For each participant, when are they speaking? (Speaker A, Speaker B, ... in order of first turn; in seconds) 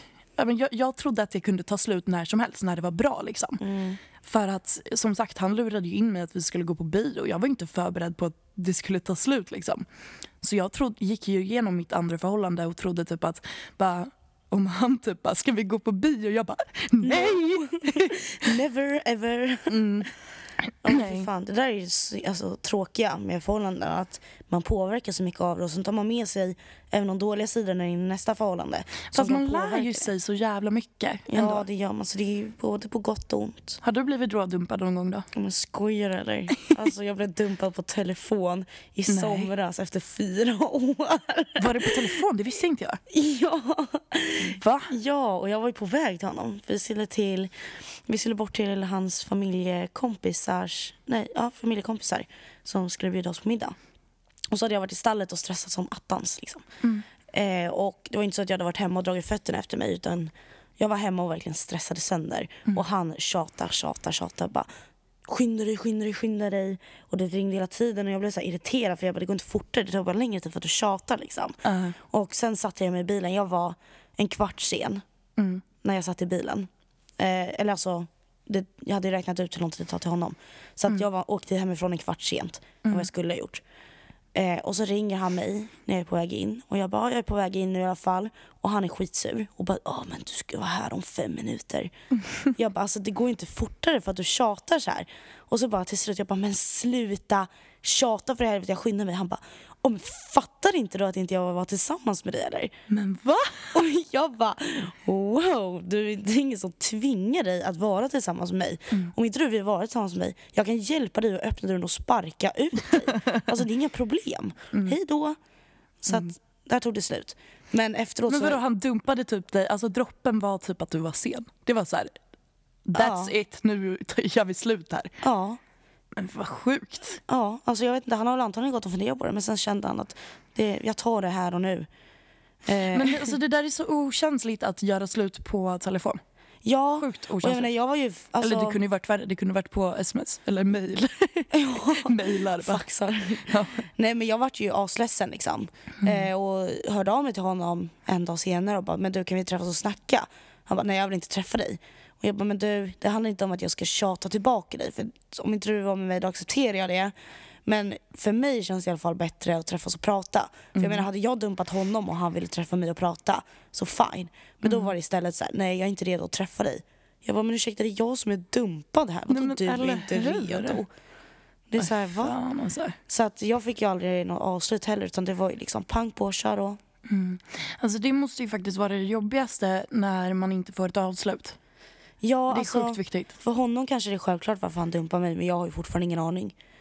Speaker A: 0.4-3.6, 4.2-9.8, 10.4-18.5, 19.7-21.3, 29.1-31.6, 33.8-35.3, 39.1-39.5, 41.6-43.0, 44.4-44.9, 71.7-72.0, 75.4-75.6, 102.9-103.7, 118.3-122.1, 122.9-125.1, 126.2-127.2, 132.9-136.2, 137.0-137.7, 138.4-142.8, 143.5-143.8, 160.7-161.1, 164.7-164.9, 169.3-170.8, 171.8-173.0, 177.1-181.6, 182.5-183.3
Speaker B: 3.6-4.0, 17.0-19.8, 20.8-30.1, 31.3-33.8, 35.3-42.0, 43.1-53.8, 54.5-56.6, 57.3-64.7, 65.2-75.0, 75.8-83.6, 84.3-91.9, 92.6-102.7, 103.7-115.4, 116.0-118.6, 123.0-123.3, 125.2-125.6, 127.3-131.9, 132.7-133.3, 136.6-138.8, 141.5-157.1, 157.7-170.9, 171.7-172.4, 173.1-176.8, 182.2-186.6